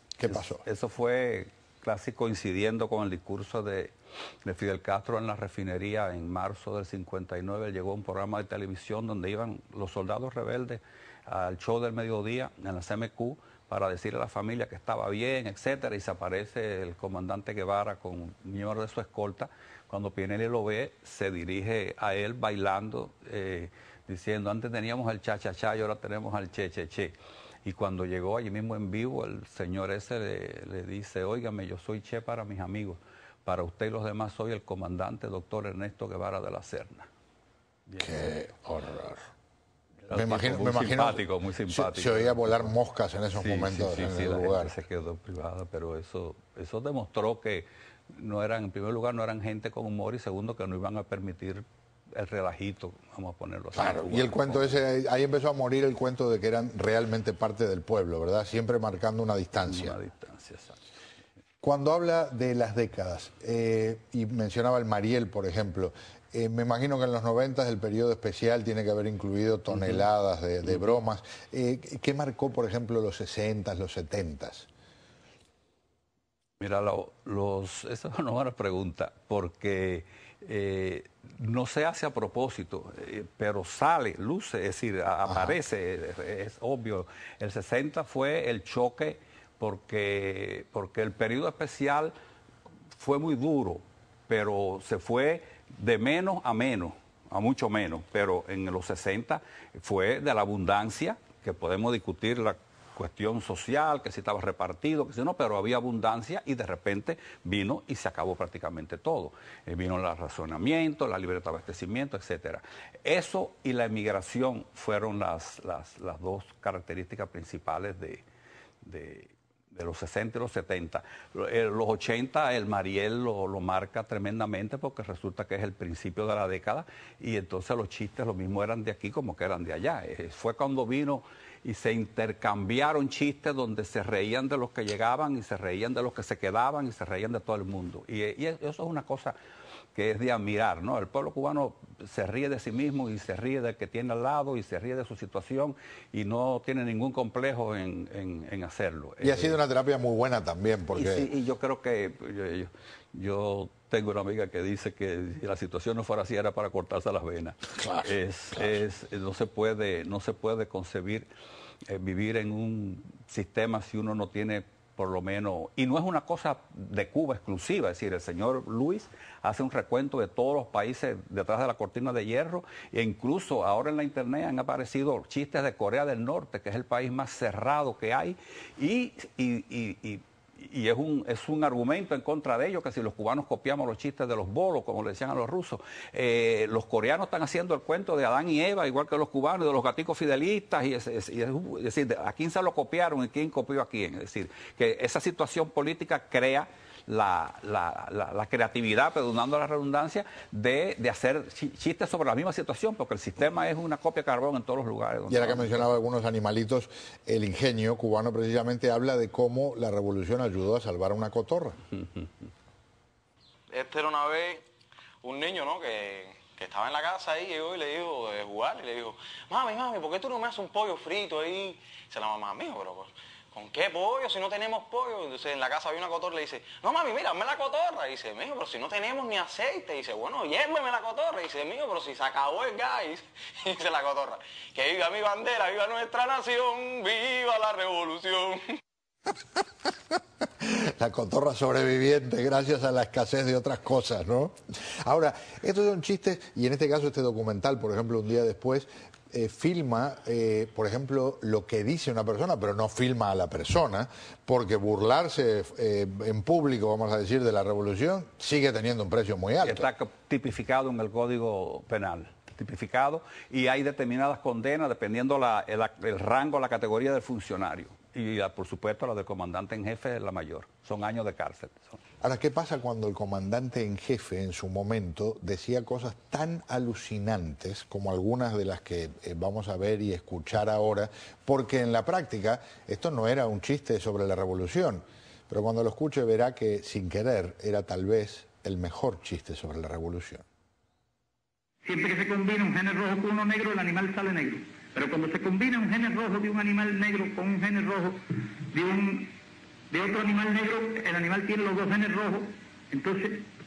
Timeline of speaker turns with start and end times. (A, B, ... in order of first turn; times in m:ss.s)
0:00.2-0:00.6 A
0:00.3-0:03.9 B
0:04.4-0:27.1 B
0:27.6-0:37.1 B
0:37.9-0:38.4 B
0:38.0-0:39.2 A
0:40.0-0:42.7 B
0:40.1-0:44.8 A
0:43.3-0:54.8 B
0:53.8-1:00.0 A
0:59.6-1:00.8 B
1:01.6-1:14.7 A
1:09.7-1:10.1 B
1:16.6-1:32.1 B
1:25.3-1:25.6 A
1:33.0-1:58.2 B
1:58.8-2:19.4 B
2:19.9-2:29.6 B
2:29.2-2:31.3 A
2:30.9-2:41.3 B
2:37.8-2:38.8 A
2:41.9-3:26.0 B
3:25.3-3:31.8 A
3:33.7-3:34.6 C
3:35.2-3:58.6 C
4:00.6-4:19.9 A
4:19.6-4:32.0 B
4:32.2-4:50.4 A
4:51.8-4:59.3 D
4:59.9-5:03.5 D